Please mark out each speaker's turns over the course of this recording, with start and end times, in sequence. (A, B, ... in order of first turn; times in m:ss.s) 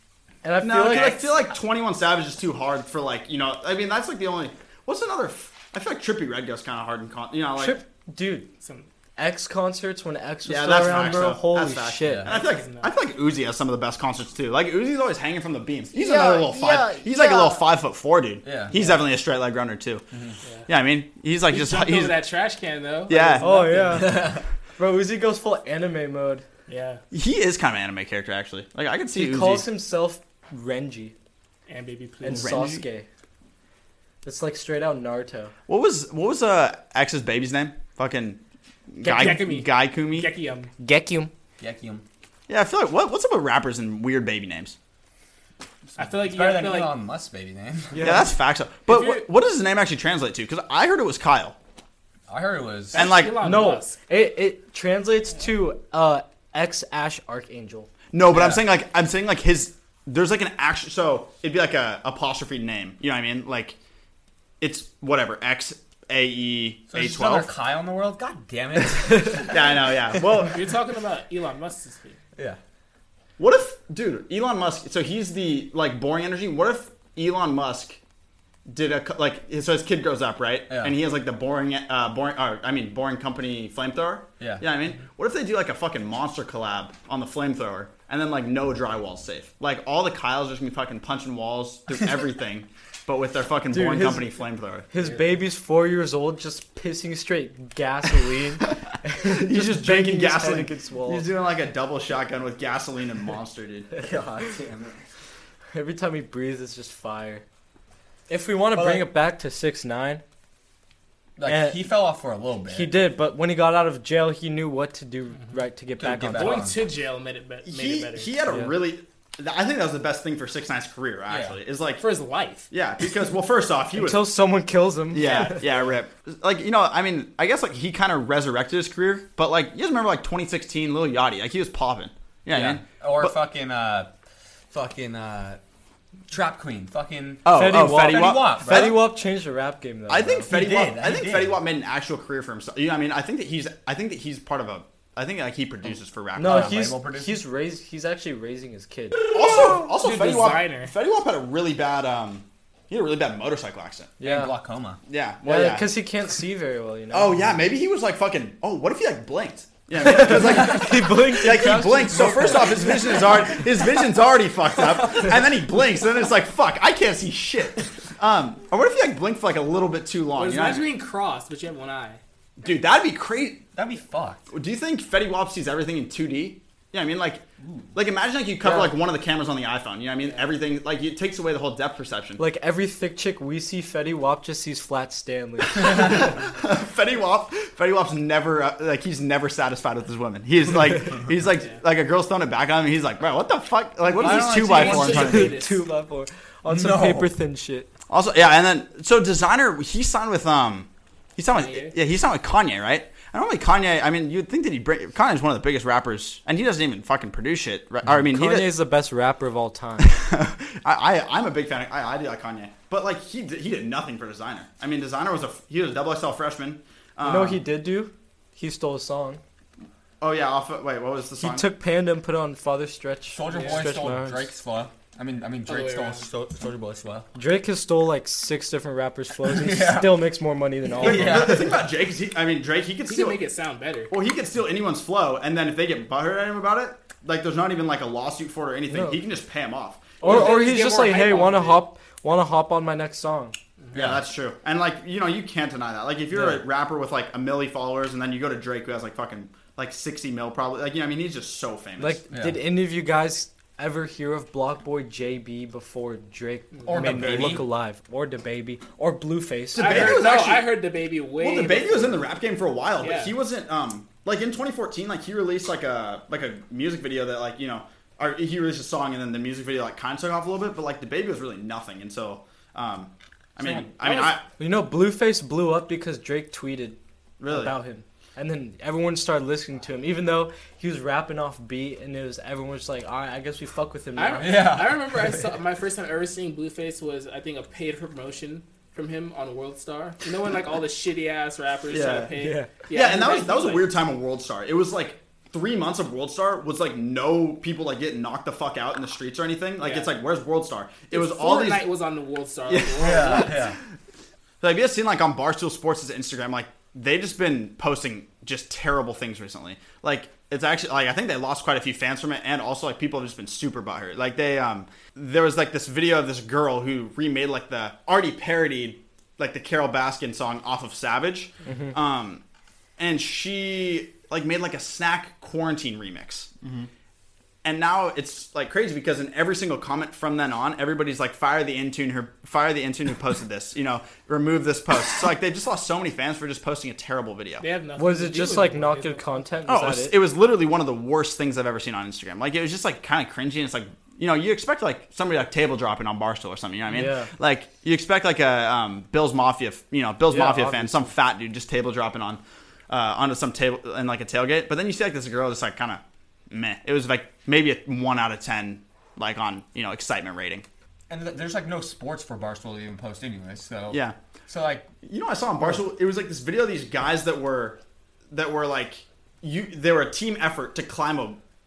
0:00.4-0:01.4 A
0:00.6-0:07.8 B
0:07.6-0:08.5 A
0:08.6-0:08.9 C
0:09.2-0:12.3 A
0:10.4-0:20.0 B
0:12.0-0:12.4 D
0:12.3-0:12.9 C
0:15.9-0:17.6 A
0:18.4-0:18.7 D
0:20.1-0:20.4 D
0:20.7-0:22.2 B
0:21.5-0:24.2 C
0:23.1-0:23.5 B
0:23.4-0:26.4 A
0:23.9-0:24.4 D
0:26.7-0:27.0 C
0:27.1-0:29.7 B
0:29.1-0:31.1 A
0:31.7-0:32.7 C
0:32.2-0:33.1 A
0:32.3-0:32.8 B
0:34.2-0:35.5 A
0:35.7-0:40.3 B
0:39.0-0:40.7 C
0:39.0-0:39.3 A
0:40.8-0:41.3 A
0:41.6-0:42.0 D
0:42.5-0:44.8 B
0:45.9-0:48.1 D
0:46.0-0:46.9 C
0:47.9-0:48.3 A
0:48.0-0:51.6 B
0:48.9-0:49.2 C
0:52.3-0:53.1 D
0:52.9-0:54.0 C
0:52.9-0:53.4 B
0:53.4-0:57.9 A
0:58.1-1:03.8 B
0:58.3-0:58.6 D
1:04.6-1:07.5 B
1:06.9-1:09.7 D
1:09.2-1:10.6 B
1:10.4-1:12.2 C
1:13.4-1:18.0 B
1:18.7-1:34.9 B
1:20.7-1:21.0 D
1:33.7-1:41.3 A
1:39.2-1:43.9 B
1:44.0-1:45.0 D
1:45.7-1:47.4 A
1:48.3-1:50.2 A
1:48.7-1:49.1 D
1:51.4-1:53.0 D
1:51.4-1:52.0 A
1:52.7-1:56.7 A
1:56.0-1:56.8 D
1:56.3-1:58.3 C
1:57.6-2:02.0 B
1:58.5-1:58.7 A
2:01.3-2:01.6 D
2:02.0-2:02.7 C
2:02.7-2:04.3 B
2:03.9-2:05.6 A
2:05.1-2:13.3 B
2:05.2-2:05.8 C
2:12.5-2:14.1 D
2:14.7-2:15.6 D
2:16.3-2:19.0 D
2:17.4-2:19.0 B
2:17.5-2:20.5 A
2:20.1-2:26.9 B
2:20.5-2:21.6 D
2:26.4-2:29.3 A
2:26.4-2:27.4 D
2:29.2-2:34.2 B
2:29.4-2:30.9 C
2:34.2-2:34.5 A
2:34.2-2:35.0 D
2:35.1-2:35.9 B
2:35.4-2:37.4 A
2:37.1-2:50.9 B
2:40.0-2:43.4 A
2:50.4-2:52.2 C
2:52.6-2:53.6 B
2:53.7-2:54.4 D
2:54.5-3:02.4 B
3:02.4-3:06.4 A
3:05.7-3:15.6 B
3:11.6-3:11.8 C
3:14.1-3:15.6 D
3:14.2-3:15.8 C
3:14.8-3:17.9 A
3:16.7-3:17.3 D
3:18.1-3:28.7 B
3:21.5-3:22.0 C
3:28.3-3:30.1 A
3:30.0-3:37.6 B
3:37.2-3:39.4 A
3:40.2-3:41.7 B
3:41.4-3:44.5 A
3:43.3-3:47.3 D
3:43.5-3:43.8 C
3:45.7-3:46.3 C
3:47.3-3:51.7 A
3:49.4-3:50.2 D
3:51.0-3:51.8 D
3:51.0-3:53.4 B
3:53.0-3:54.1 C
3:54.1-4:00.3 B
3:58.9-3:59.2 A
4:00.2-4:03.6 A
4:00.2-4:01.8 C
4:03.9-4:04.2 D
4:03.9-4:12.2 B
4:06.3-4:06.6 D
4:12.0-4:20.2 A
4:12.3-4:12.6 D
4:16.8-4:17.0 C
4:16.8-4:17.7 D
4:19.7-4:20.8 B
4:19.7-4:22.3 C
4:21.4-4:34.4 B
4:23.0-4:23.3 C
4:34.0-4:34.4 C
4:34.6-4:44.8 A
4:37.4-4:37.8 B
4:44.2-4:53.9 C
4:44.4-4:45.4 D
4:51.9-4:52.4 B
4:52.4-4:52.7 A
4:52.9-5:01.9 B
4:59.8-5:00.1 C
5:01.1-5:03.7 C
5:02.7-5:03.8 B
5:03.0-5:03.8 D
5:04.6-5:22.4 B
5:21.6-5:21.9 A
5:23.0-5:26.5 B
5:27.6-5:37.6 B
5:37.6-5:39.4 C
5:38.0-5:40.2 A
5:39.7-6:00.6 B
5:46.9-5:47.3 A
5:50.3-5:51.1 A
6:01.1-6:04.9 D
6:03.9-6:04.2 B
6:05.0-6:07.8 B
6:08.3-6:11.4 B